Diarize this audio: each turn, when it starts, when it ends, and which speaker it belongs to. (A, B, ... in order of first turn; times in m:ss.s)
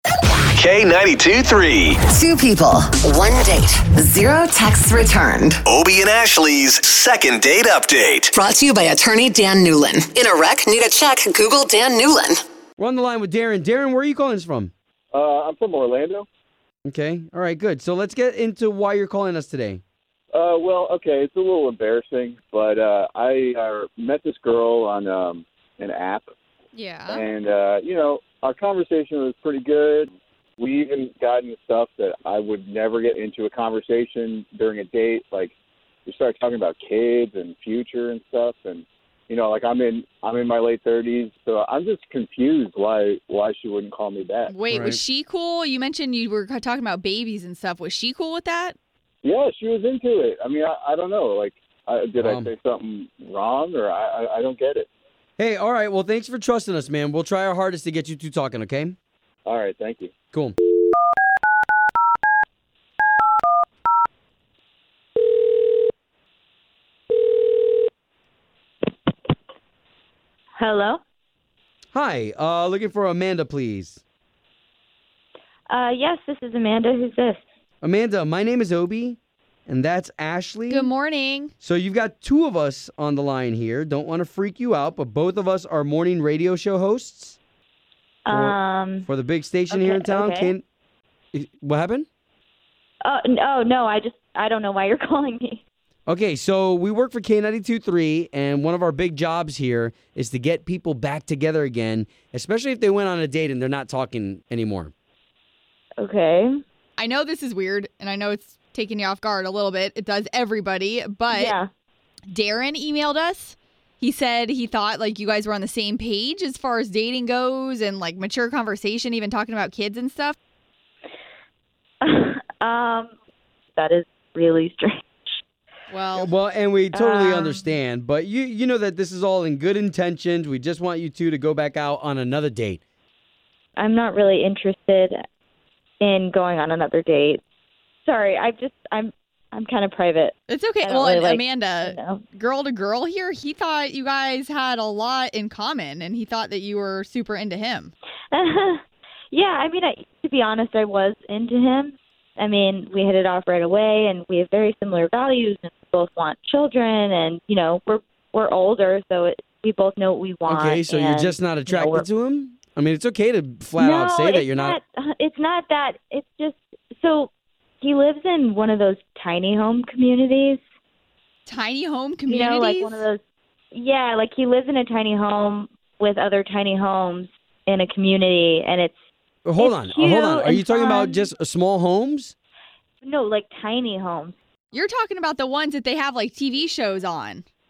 0:00.4-0:02.0 A
0:02.0-0:05.6 B
0:05.6-0:08.3 A
0:08.3-0:12.4 B
0:12.8-0:14.7 C
0:15.1-0:16.1 D
0:15.2-0:16.2 E
0:16.8-0:19.8 C
0:20.3-0:21.7 D
0:20.4-0:23.6 E
0:23.2-0:24.6 D
0:24.1-0:26.1 E
0:26.7-0:27.2 F
0:27.1-0:29.1 D
0:27.2-0:35.5 E
0:36.1-0:36.4 D
0:36.1-0:44.5 E
0:37.9-0:38.6 D
0:39.3-0:44.0 D
0:44.5-0:48.7 F
0:44.7-0:45.0 C
0:49.3-0:49.6 E
0:49.6-0:51.2 D
0:50.1-0:53.0 E
0:52.2-0:52.5 C
0:53.1-0:54.6 D
0:54.5-0:54.8 E
0:55.4-0:59.0 C
0:59.5-1:00.1 E
1:00.3-1:00.6 C
1:10.6-1:11.0 D
1:11.9-1:14.0 C
1:15.7-1:17.4 D
1:17.8-1:20.9 C
1:20.7-1:21.5 F
1:21.6-1:27.4 C
1:28.3-1:29.0 D
1:28.3-1:30.6 C
1:29.7-1:30.5 D
1:31.3-1:32.1 C
1:33.0-1:35.6 D
1:36.1-1:44.9 C
1:46.0-1:46.6 D
1:47.0-1:51.6 F
1:51.3-1:51.7 D
1:52.3-2:00.4 F
2:02.0-2:03.1 D
2:03.7-2:05.4 D
2:05.9-2:06.3 F
2:06.1-2:12.8 C
2:06.9-2:07.6 D
2:13.8-2:15.2 D
2:16.0-2:17.4 D
2:18.0-2:22.2 D
2:20.5-2:27.9 F
2:28.3-2:42.0 D
2:40.4-2:44.8 C
2:43.8-2:47.3 D
2:47.8-2:50.6 D
2:51.4-2:53.0 F
2:52.3-2:53.2 D
2:53.7-2:59.0 D
2:59.4-3:02.3 C
2:59.6-3:01.2 D
3:03.0-3:04.4 D
3:04.7-3:07.4 F